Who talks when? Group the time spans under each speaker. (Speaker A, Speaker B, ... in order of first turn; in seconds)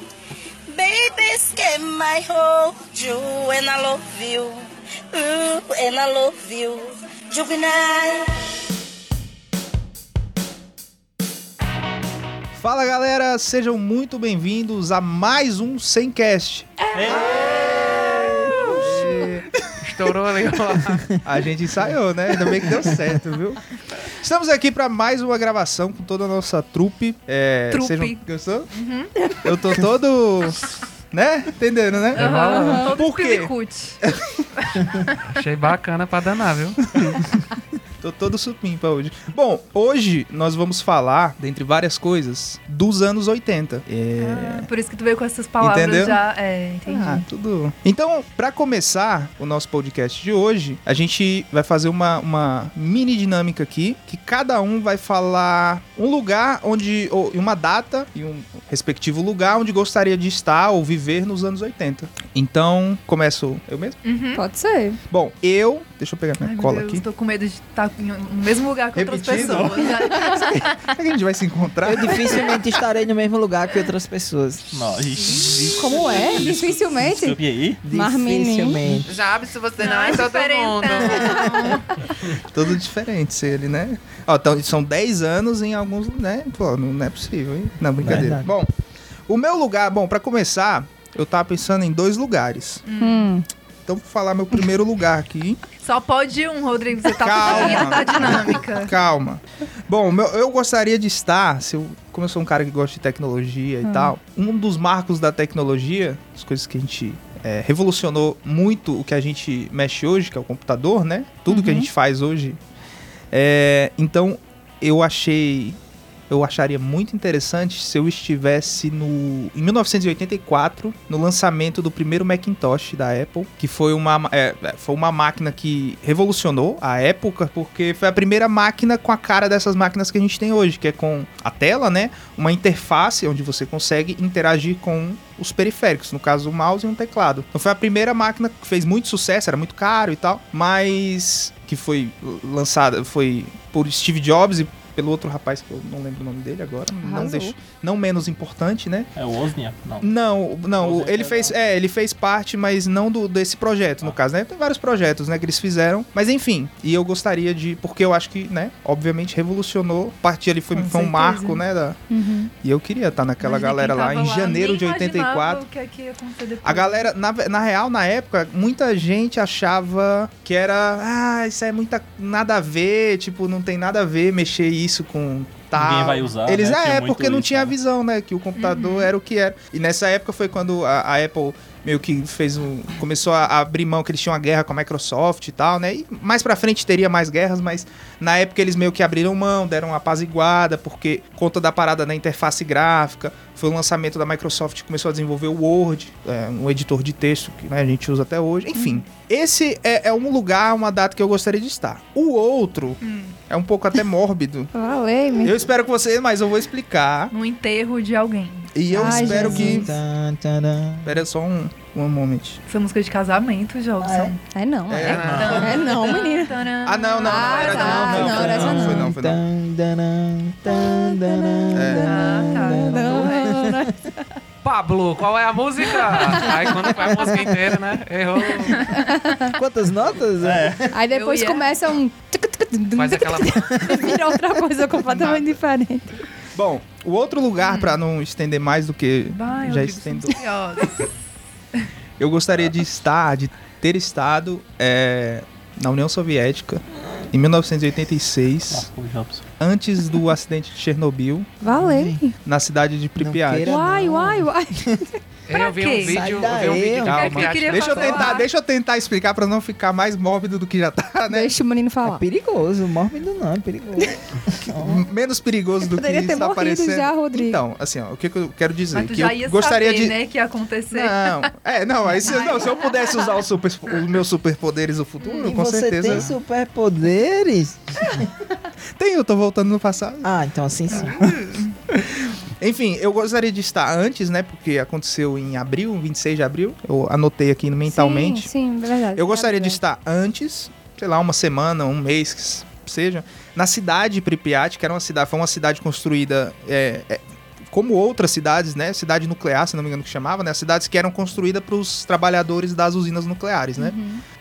Speaker A: 0.7-8.3
Speaker B: 12.6-19.5, 21.2-28.7, 29.4-32.4, 32.9-33.5, 34.0-34.5, 38.0-44.7, 45.6-46.2, 46.9-64.0, 65.1-67.0, 68.9-72.5, 82.3-88.7, 89.3-92.8, 93.9-95.6, 97.2-112.6, 113.3-115.8, 116.3-149.1, 150.0-162.0, 162.6-165.6, 166.6-204.7, 205.4-207.3, 208.7-209.9, 211.0-212.6, 214.9-215.8, 216.8-219.4, 221.7-222.2, 235.0-235.5, 236.5-240.4, 242.2-248.9, 249.6-251.5, 252.4-253.7, 257.0-261.5, 264.7-270.1, 270.9-276.3, 279.0-280.3, 280.9-288.5, 289.1-303.9
Speaker C: 16.9-17.4, 69.3-69.9, 74.7-77.8, 149.1-150.1, 150.7-151.5, 175.7-177.7, 215.2-215.5, 230.4-230.9, 248.7-249.4
Speaker D: 19.8-21.2, 32.1-32.9, 35.3-37.1, 78.9-81.7, 215.0-215.7, 224.6-228.9, 232.9-233.8, 255.5-258.3
Speaker E: 22.5-23.2, 71.8-74.7, 77.8-79.1, 88.0-88.5, 208.9-211.2, 214.0-214.3, 217.6-223.9, 226.9-227.6, 229.5-230.9, 251.6-252.2, 253.2-255.1, 255.9-257.3, 262.0-265.1, 275.4-278.3, 280.2-281.4
Speaker F: 27.7-29.1, 32.1-34.0, 44.2-47.2, 64.0-64.4, 66.4-70.9, 72.3-72.6, 75.2-75.6, 79.8-82.0, 92.8-93.3, 95.8-98.9, 103.8-104.1, 111.5-111.9, 160.7-161.6, 163.4-167.1, 178.6-179.1, 198.7-199.0, 203.0-203.3, 207.3-208.7, 212.7-214.4, 215.3-218.7, 222.0-223.5, 231.1-231.7, 237.6-238.0, 239.3-241.1, 255.5-258.5, 268.9-271.5, 272.1-273.2, 275.2-275.5, 280.9-281.8
Speaker G: 32.6-32.9, 64.3-65.0, 75.8-78.8, 93.0-93.4, 147.0-147.5, 162.1-162.5, 204.7-205.6, 208.9-209.9, 214.5-216.5, 217.2-219.1, 220.7-224.2, 226.1-226.5, 228.6-229.5, 230.9-236.2, 251.6-252.3, 253.6-255.1, 261.3-262.2, 265.8-267.6, 287.9-289.8, 303.8-304.2